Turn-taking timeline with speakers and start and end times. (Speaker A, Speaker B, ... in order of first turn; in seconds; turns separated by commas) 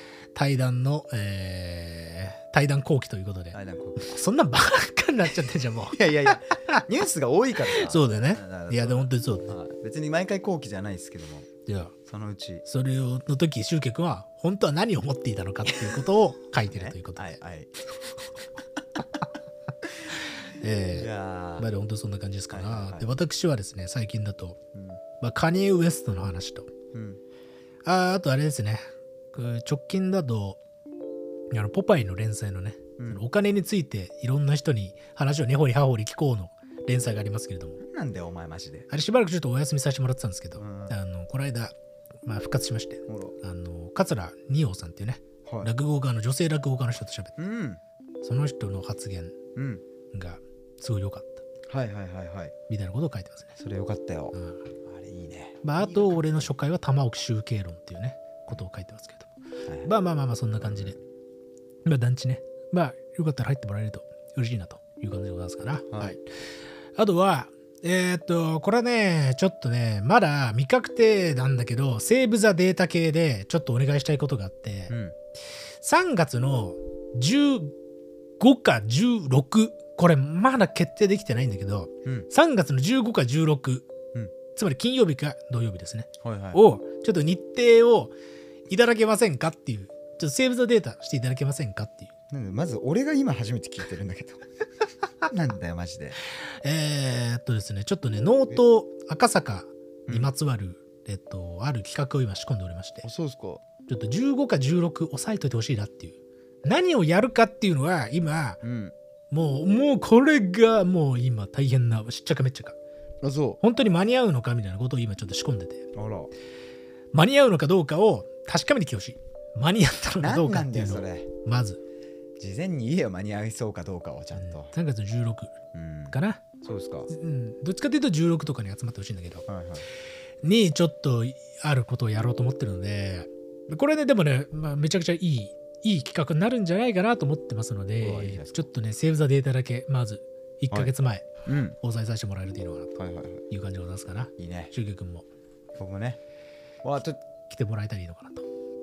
Speaker A: 0.3-6.9, Speaker B: 3.5-4.3, Speaker B: 5.9-11.5, Speaker A: 7.6-9.5, Speaker A: 11.7-11.9, Speaker B: 12.1-12.7, Speaker A: 12.7-17.4, Speaker B: 15.7-16.0, Speaker B: 16.7-17.7, Speaker A: 20.6-24.6, Speaker B: 20.9-21.7, Speaker B: 22.5-23.2, Speaker B: 24.7-25.0, Speaker A: 25.2-26.7, Speaker B: 26.9-27.2, Speaker A: 27.9-30.6, Speaker A: 31.5-37.8, Speaker B: 37.8-38.9, Speaker A: 38.9-41.7, Speaker B: 40.6-41.0, Speaker A: 42.2-47.4, Speaker B: 43.1-43.4, Speaker B: 45.5-45.7, Speaker B: 47.4-47.8, Speaker A: 48.2-49.4, Speaker B: 49.5-49.8, Speaker A: 50.1-51.5, Speaker B: 51.7-52.5, Speaker A: 52.7-53.5, Speaker B: 53.6-56.6, Speaker A: 54.4-54.6, Speaker A: 55.6-59.3, Speaker A: 59.8-61.0, Speaker B: 60.6-61.0, Speaker A: 61.9-66.2, Speaker B: 65.9-66.2, Speaker A: 67.0-75.0, Speaker B: 74.9-75.2, Speaker A: 75.8-77.8, Speaker A: 78.4-83.9, Speaker A: 84.5-88.1, Speaker B: 86.2-86.6, Speaker A: 88.7-92.1, Speaker B: 92.3-94.5, Speaker B: 95.3-96.2, Speaker A: 96.5-103.1, Speaker B: 103.0-103.6, Speaker A: 103.9-108.6, Speaker B: 108.6-109.0, Speaker A: 109.3-112.8, Speaker B: 113.2-113.6, Speaker A: 113.6-115.9, Speaker B: 115.9-116.3, Speaker A: 117.1-121.8, Speaker B: 120.2-121.3, Speaker B: 122.4-124.7, Speaker A: 124.4-125.5, Speaker B: 125.7-127.1, Speaker A: 126.1-126.4, Speaker A: 127.1-129.5, Speaker B: 129.5-129.9, Speaker A: 130.4-142.9, Speaker B: 138.0-138.7, Speaker B: 141.4-141.8, Speaker B: 143.0-143.4, Speaker A: 143.5-145.2, Speaker B: 144.4-144.7, Speaker B: 145.8-146.2, Speaker B: 146.8-147.2, Speaker A: 147.5-148.4